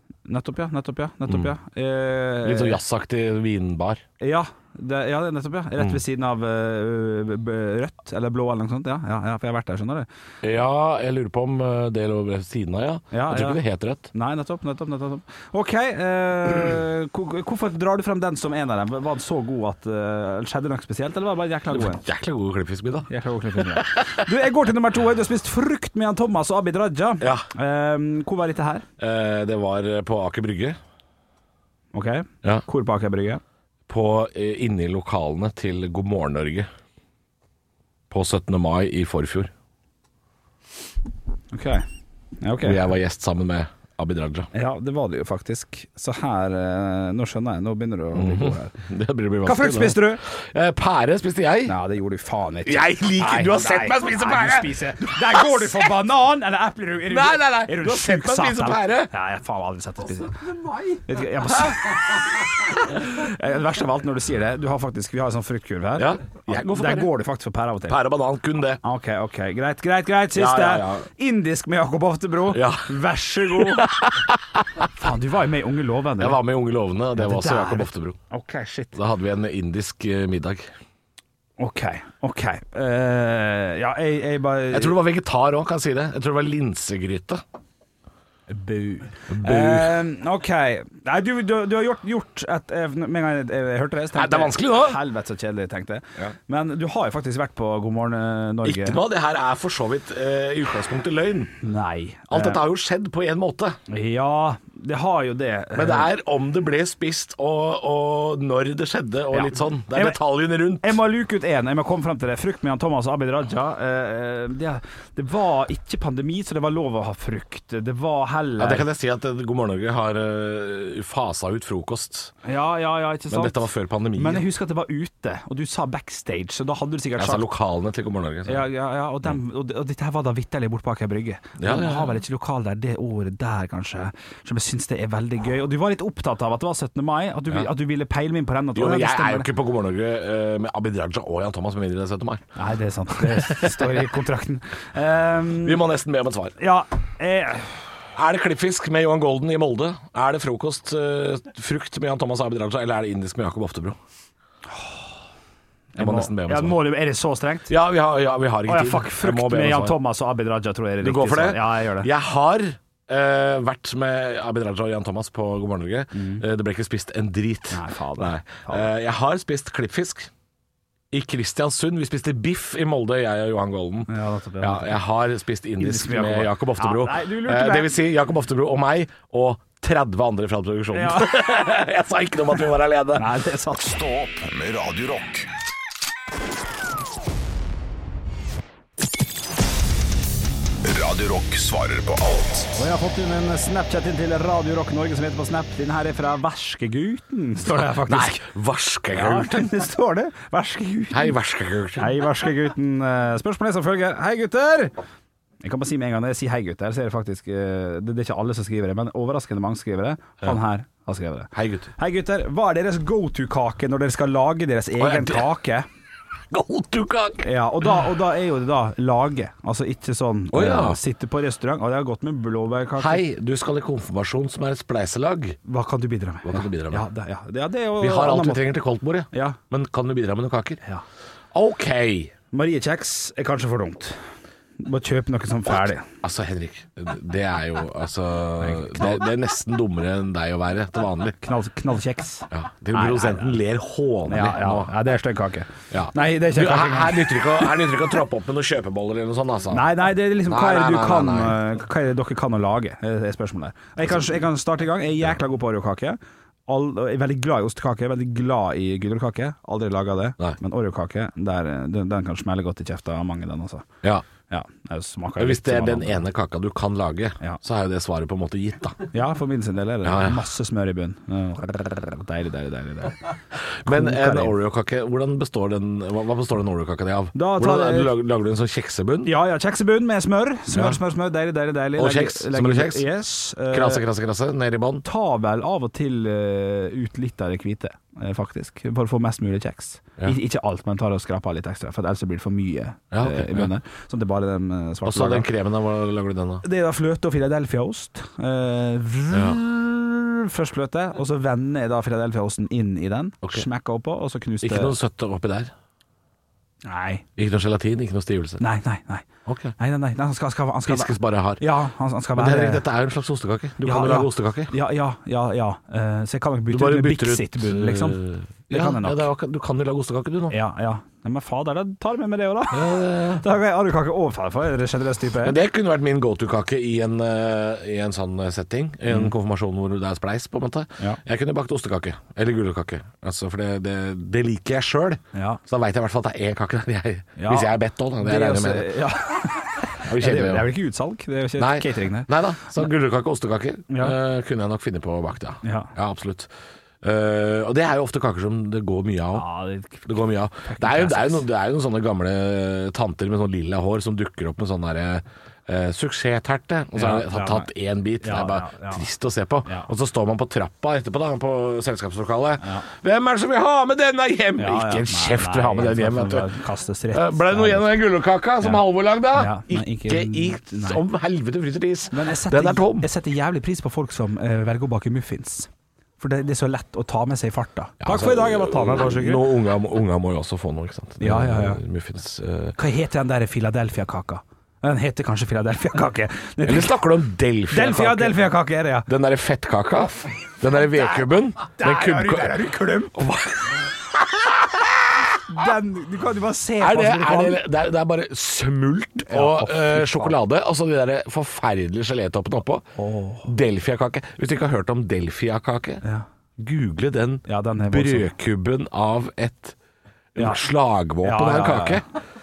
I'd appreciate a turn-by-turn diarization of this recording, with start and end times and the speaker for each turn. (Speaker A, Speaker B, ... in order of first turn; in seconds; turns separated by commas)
Speaker A: 0.2-2.8, Speaker B: 1.3-1.5, Speaker B: 2.4-4.0, Speaker A: 4.2-10.1, Speaker B: 10.4-14.1, Speaker A: 13.1-13.6, Speaker A: 14.1-22.0, Speaker B: 21.7-24.2, Speaker A: 23.1-28.9, Speaker B: 27.2-27.4, Speaker B: 29.0-30.8, Speaker A: 31.9-33.4, Speaker B: 33.9-36.7, Speaker B: 38.1-39.5, Speaker A: 41.5-41.9, Speaker A: 42.4-42.8, Speaker B: 42.6-44.5, Speaker A: 44.5-48.7, Speaker B: 48.1-51.8, Speaker A: 49.4-50.2, Speaker A: 51.7-60.4, Speaker B: 52.6-55.9, Speaker B: 57.1-59.1, Speaker A: 61.0-68.0, Speaker B: 66.0-67.1, Speaker B: 67.9-68.8, Speaker A: 68.8-74.0, Speaker B: 70.3-71.1, Speaker B: 72.5-72.9, Speaker B: 73.5-74.9, Speaker A: 74.9-76.4, Speaker B: 76.2-78.2, Speaker A: 77.2-78.9, Speaker B: 78.9-80.7, Speaker A: 81.6-85.0, Speaker B: 84.7-87.4, Speaker A: 88.5-99.0, Speaker B: 89.3-90.0, Speaker B: 94.1-95.0, Speaker B: 98.6-101.5, Speaker A: 101.6-102.6, Speaker B: 102.3-103.8, Speaker A: 103.9-106.1, Speaker B: 105.7-111.0, Speaker A: 109.3-110.2, Speaker A: 110.8-118.9, Speaker B: 118.6-122.3, Speaker A: 122.4-127.5, Speaker B: 123.3-124.5, Speaker B: 127.2-128.7, Speaker A: 128.5-139.5, Speaker B: 131.6-132.2, Speaker B: 138.7-142.4, Speaker A: 142.6-145.8, Speaker B: 143.2-144.0, Speaker B: 145.6-146.5, Speaker A: 146.6-147.8, Speaker B: 148.1-154.0, Speaker A: 154.7-155.0, Speaker A: 155.9-157.7, Speaker B: 156.0-156.8, Speaker B: 157.7-159.9, Speaker A: 158.7-162.1, Speaker B: 161.0-170.3, Speaker A: 166.1-166.4, Speaker A: 167.7-168.9, Speaker B: 171.1-183.2, Speaker A: 174.1-175.0, Speaker A: 175.8-177.9, Speaker A: 180.9-181.7, Speaker A: 183.2-183.9, Speaker C: 183.8-185.5, Speaker C: 190.8-192.7, Speaker A: 192.8-198.4, Speaker B: 197.8-199.7, Speaker A: 199.1-201.3, Speaker B: 201.1-202.2, Speaker A: 202.0-204.9, Speaker A: 205.6-215.9, Speaker B: 211.5-211.9, Speaker B: 215.0-215.5, Speaker B: 216.5-217.4, Speaker A: 217.4-223.2, Speaker B: 220.5-221.0, Speaker B: 223.0-225.6, Speaker A: 225.7-228.7, Speaker B: 226.4-227.1, Speaker B: 228.0-230.8, Speaker A: 229.3-229.6, Speaker B: 231.5-232.3, Speaker A: 232.5-234.2, Speaker A: 234.8-236.1, Speaker B: 236.1-241.4, Speaker A: 238.6-239.2, Speaker A: 241.4-243.6, Speaker B: 242.5-244.9, Speaker A: 244.3-247.7, Speaker B: 245.9-249.9, Speaker A: 249.7-263.9, Speaker B: 250.4-251.6, Speaker A: 264.5-266.2, Speaker B: 265.4-269.0, Speaker A: 269.1-273.2, Speaker B: 270.0-270.4, Speaker B: 273.8-279.3, Speaker A: 273.9-274.5, Speaker A: 277.4-278.1, Speaker A: 279.2-284.0, Speaker B: 280.7-281.0, Speaker B: 282.0-283.1, Speaker B: 283.7-285.0, Speaker A: 285.0-295.5, Speaker B: 293.1-293.7, Speaker B: 295.0-296.6, Speaker A: 296.6-304.9, Speaker B: 299.3-299.6, Speaker B: 304.6-305.7, Speaker A: 306.9-307.2, Speaker B: 307.4-308.6, Speaker A: 308.6-309.2, Speaker B: 309.4-309.7, Speaker A: 309.8-312.8, Speaker B: 310.9-311.6, Speaker B: 312.4-314.7, Speaker A: 313.8-319.3, Speaker B: 316.7-320.6, Speaker A: 320.5-325.6, Speaker B: 322.7-323.4, Speaker B: 325.4-339.1, Speaker A: 335.3-335.6, Speaker A: 337.4-342.3, Speaker B: 340.0-340.7, Speaker B: 341.6-346.5, Speaker A: 343.9-344.1, Speaker A: 345.6-345.9, Speaker B: 347.0-349.5, Speaker A: 349.3-350.1, Speaker B: 350.1-366.5, Speaker A: 350.6-351.4, Speaker A: 356.9-357.7, Speaker A: 358.2-359.1, Speaker A: 364.6-367.9, Speaker B: 367.1-373.1, Speaker A: 368.6-371.0, Speaker A: 372.1-379.4, Speaker B: 378.0-382.8, Speaker A: 381.2-381.8, Speaker A: 382.8-386.9, Speaker B: 386.6-388.5, Speaker A: 387.7-389.1, Speaker B: 389.1-395.3, Speaker A: 391.7-393.2, Speaker A: 395.4-397.6, Speaker B: 396.8-402.9, Speaker A: 399.2-400.4, Speaker A: 403.0-403.5, Speaker B: 403.4-406.0, Speaker B: 406.6-409.8, Speaker A: 407.5-408.3, Speaker B: 410.4-412.0, Speaker A: 410.4-410.6, Speaker A: 411.2-412.0